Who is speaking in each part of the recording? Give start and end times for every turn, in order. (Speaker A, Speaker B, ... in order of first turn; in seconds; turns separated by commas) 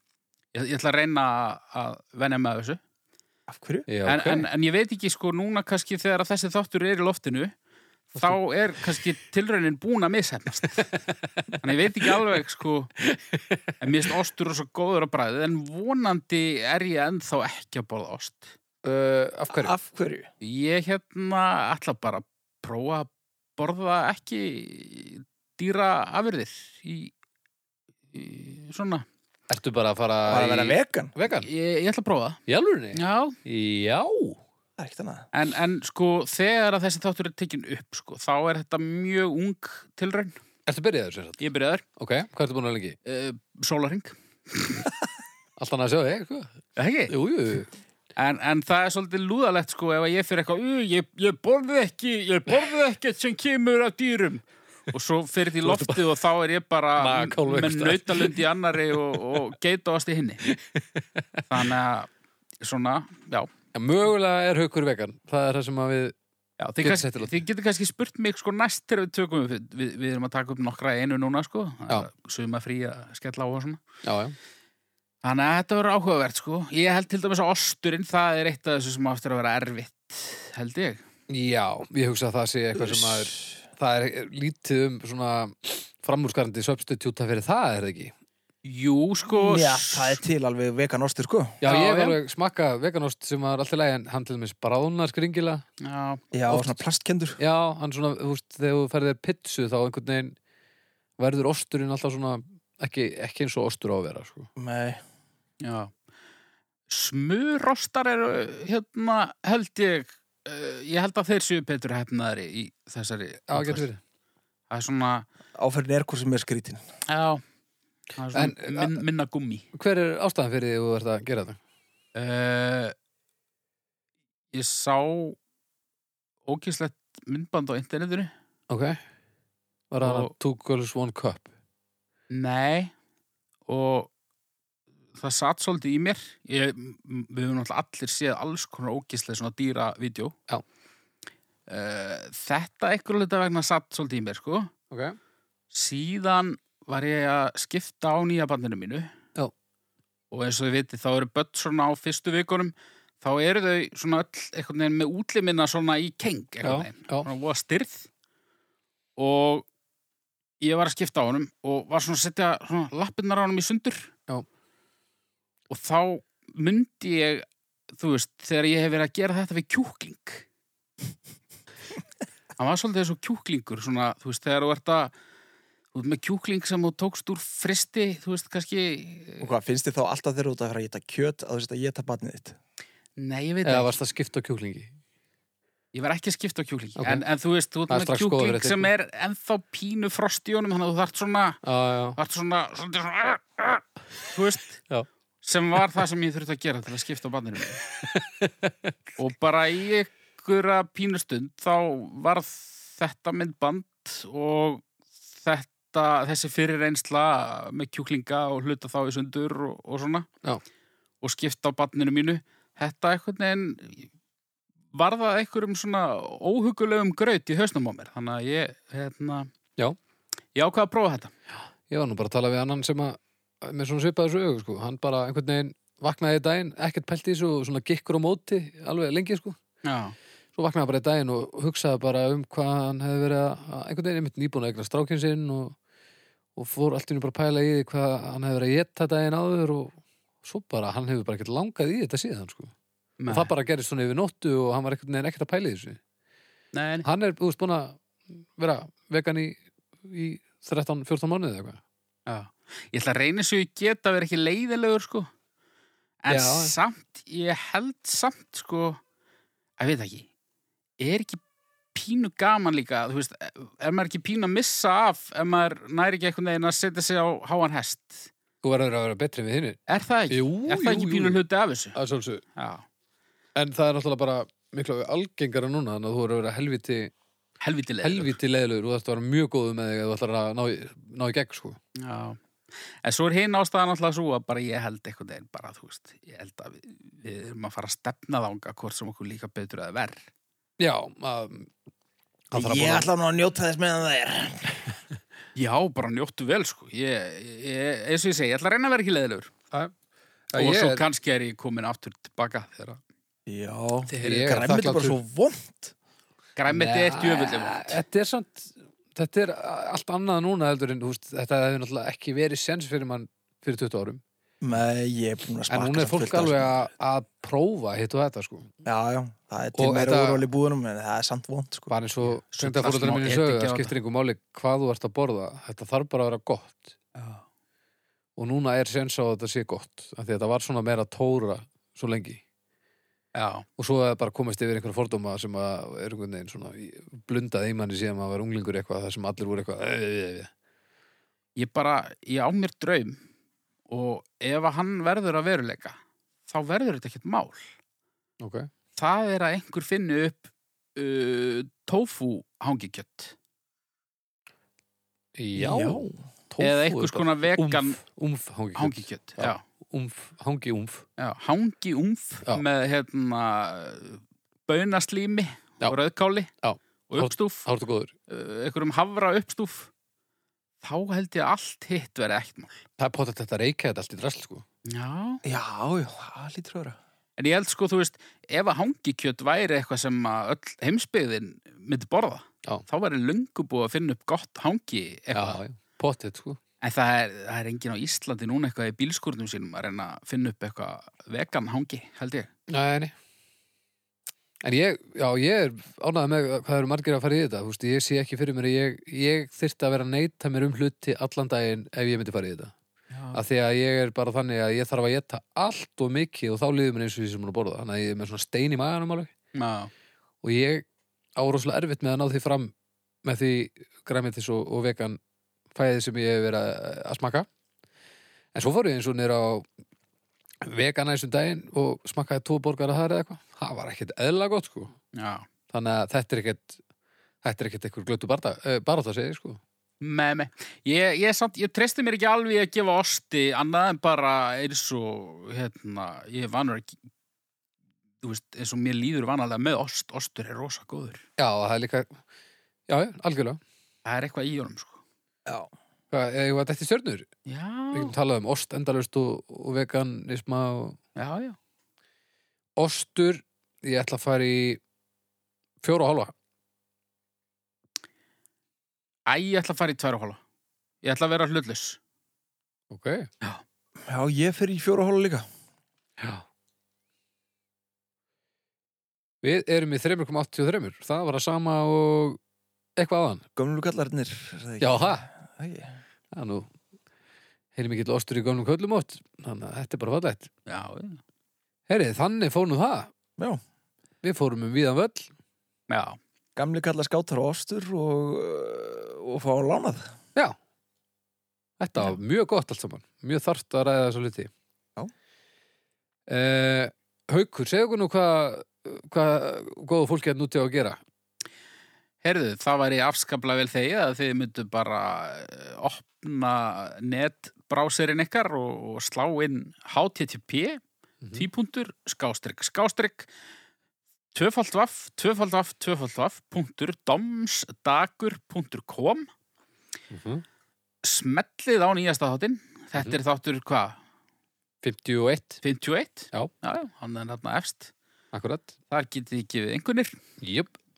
Speaker A: 0.5-2.8, Speaker B: 3.5-3.9, Speaker C: 3.9-4.5, Speaker A: 4.0-7.5, Speaker A: 8.1-10.9, Speaker A: 11.6-12.9, Speaker C: 13.1-13.6, Speaker A: 13.8-18.5, Speaker C: 18.8-19.7, Speaker B: 19.5-20.3, Speaker A: 20.4-27.1, Speaker A: 28.1-29.0, Speaker C: 29.5-31.5, Speaker B: 30.2-31.1, Speaker A: 31.3-32.4, Speaker C: 32.5-34.4, Speaker A: 32.9-33.4, Speaker B: 34.8-35.3, Speaker A: 35.3-40.4, Speaker C: 40.6-41.4, Speaker A: 41.4-41.8, Speaker C: 42.0-43.0, Speaker A: 43.0-44.9, Speaker C: 45.6-46.5, Speaker A: 46.8-47.1, Speaker C: 47.1-47.7, Speaker A: 48.1-60.5, Speaker C: 55.6-56.0, Speaker C: 57.0-59.4, Speaker C: 60.5-61.4, Speaker A: 61.5-63.5, Speaker C: 63.7-66.1, Speaker A: 66.6-73.8, Speaker C: 66.8-67.4, Speaker C: 74.0-74.3, Speaker A: 75.2-81.0, Speaker C: 81.3-88.1, Speaker B: 82.7-83.6, Speaker A: 88.6-90.2, Speaker B: 89.3-91.6, Speaker C: 91.6-95.6, Speaker A: 91.6-92.2, Speaker A: 95.8-96.2, Speaker B: 96.3-97.4, Speaker C: 96.5-96.8, Speaker C: 97.4-100.3, Speaker C: 101.2-104.5, Speaker B: 104.6-105.0, Speaker A: 105.6-105.9, Speaker A: 106.9-113.8, Speaker C: 113.5-114.0, Speaker A: 114.7-115.3, Speaker B: 115.6-116.8, Speaker A: 117.1-117.4, Speaker A: 118.2-119.7, Speaker C: 118.3-119.0, Speaker C: 119.7-121.6, Speaker A: 122.1-122.9, Speaker A: 124.5-125.4, Speaker A: 126.5-128.3, Speaker C: 128.7-129.0, Speaker C: 129.9-131.5, Speaker A: 130.0-130.3, Speaker A: 132.3-132.9, Speaker A: 133.7-134.1, Speaker A: 135.2-140.3, Speaker A: 141.7-144.7, Speaker C: 144.9-145.2, Speaker A: 145.7-149.1, Speaker A: 150.3-158.1, Speaker C: 156.6-157.3, Speaker A: 159.2-159.7, Speaker A: 160.6-164.1, Speaker A: 165.7-170.4, Speaker A: 172.6-175.1, Speaker A: 175.9-179.5, Speaker B: 179.4-182.6, Speaker A: 183.2-183.9, Speaker C: 183.6-184.9, Speaker A: 185.9-191.6, Speaker C: 187.0-187.2, Speaker C: 187.9-188.9, Speaker C: 191.6-192.2, Speaker A: 192.2-194.8, Speaker A: 195.4-197.8, Speaker C: 198.0-198.9, Speaker A: 199.2-210.3, Speaker A: 211.2-214.1, Speaker A: 214.9-219.5, Speaker A: 220.5-221.3, Speaker C: 221.9-229.6, Speaker A: 229.8-230.2, Speaker C: 230.6-235.7, Speaker C: 236.6-242.7, Speaker A: 243.2-243.5, Speaker C: 243.3-246.0, Speaker A: 246.7-247.1, Speaker C: 247.0-248.0, Speaker C: 248.6-251.8, Speaker A: 252.3-255.3, Speaker A: 256.2-259.0, Speaker C: 256.3-256.7, Speaker A: 259.8-260.3, Speaker A: 261.0-261.4, Speaker A: 261.9-268.3, Speaker C: 268.6-271.4, Speaker A: 269.9-272.0, Speaker C: 271.9-272.4, Speaker A: 272.6-272.8, Speaker C: 273.5-277.1, Speaker A: 277.6-278.4, Speaker C: 278.0-281.8, Speaker A: 281.9-282.4, Speaker A: 283.0-290.2, Speaker C: 290.8-291.7, Speaker C: 292.5-293.1, Speaker B: 292.5-294.9, Speaker A: 295.5-299.5, Speaker C: 300.5-301.0, Speaker A: 300.5-303.0, Speaker B: 303.5-305.9, Speaker A: 304.1-304.7, Speaker C: 304.2-305.2, Speaker A: 306.6-308.0, Speaker C: 306.7-314.2, Speaker B: 314.6-316.7, Speaker C: 315.7-318.7, Speaker B: 318.8-321.9, Speaker C: 319.8-320.4, Speaker C: 321.9-326.9, Speaker A: 322.5-323.9, Speaker A: 327.1-327.4, Speaker C: 328.4-332.4, Speaker A: 333.3-333.6, Speaker C: 333.8-340.5, Speaker A: 341.6-343.2, Speaker A: 343.9-347.6, Speaker C: 348.4-348.7, Speaker A: 348.9-353.3, Speaker C: 355.4-361.0, Speaker B: 355.6-356.2, Speaker A: 356.6-358.0, Speaker A: 358.8-359.6, Speaker A: 361.2-366.5, Speaker C: 366.6-368.1, Speaker A: 367.1-367.7, Speaker A: 368.3-369.9, Speaker A: 370.8-372.8, Speaker C: 373.0-374.6, Speaker A: 374.9-375.4, Speaker B: 375.4-377.0, Speaker A: 377.4-385.6, Speaker C: 385.3-386.6, Speaker A: 386.8-392.5, Speaker C: 392.7-393.1, Speaker C: 394.6-402.7, Speaker A: 403.1-403.4, Speaker C: 403.3-409.3, Speaker A: 409.5-409.9, Speaker C: 410.4-410.8, Speaker C: 411.4-412.7, Speaker C: 413.2-415.2, Speaker C: 415.7-417.5, Speaker C: 418.5-419.6, Speaker C: 420.6-424.9, Speaker A: 425.1-425.5, Speaker C: 425.7-426.8, Speaker C: 427.4-429.6, Speaker A: 430.0-437.0, Speaker A: 438.2-441.2, Speaker C: 441.4-442.2, Speaker C: 442.9-443.6, Speaker A: 444.0-445.0, Speaker C: 446.1-447.3, Speaker A: 447.5-448.1, Speaker C: 447.9-451.0, Speaker A: 451.1-451.6, Speaker C: 452.8-454.8, Speaker C: 455.8-456.3, Speaker A: 459.3-460.4, Speaker A: 461.0-462.0, Speaker C: 462.9-463.3, Speaker B: 464.0-465.5, Speaker C: 466.2-466.4, Speaker C: 469.4-472.4, Speaker C: 473.0-473.4, Speaker B: 473.6-476.0, Speaker C: 474.8-475.2, Speaker C: 476.3-476.7, Speaker C: 477.8-480.5, Speaker A: 480.7-481.2, Speaker C: 481.9-483.1, Speaker C: 484.2-485.3, Speaker A: 485.9-486.2, Speaker B: 486.6-490.1, Speaker C: 491.8-494.5, Speaker C: 496.3-501.0, Speaker A: 502.2-510.8, Speaker A: 511.3-513.3, Speaker A: 514.3-519.3, Speaker C: 520.1-520.4, Speaker A: 521.0-524.0, Speaker C: 524.8-525.6, Speaker A: 525.6-527.9, Speaker C: 528.3-528.7, Speaker A: 528.9-530.1, Speaker C: 530.4-530.7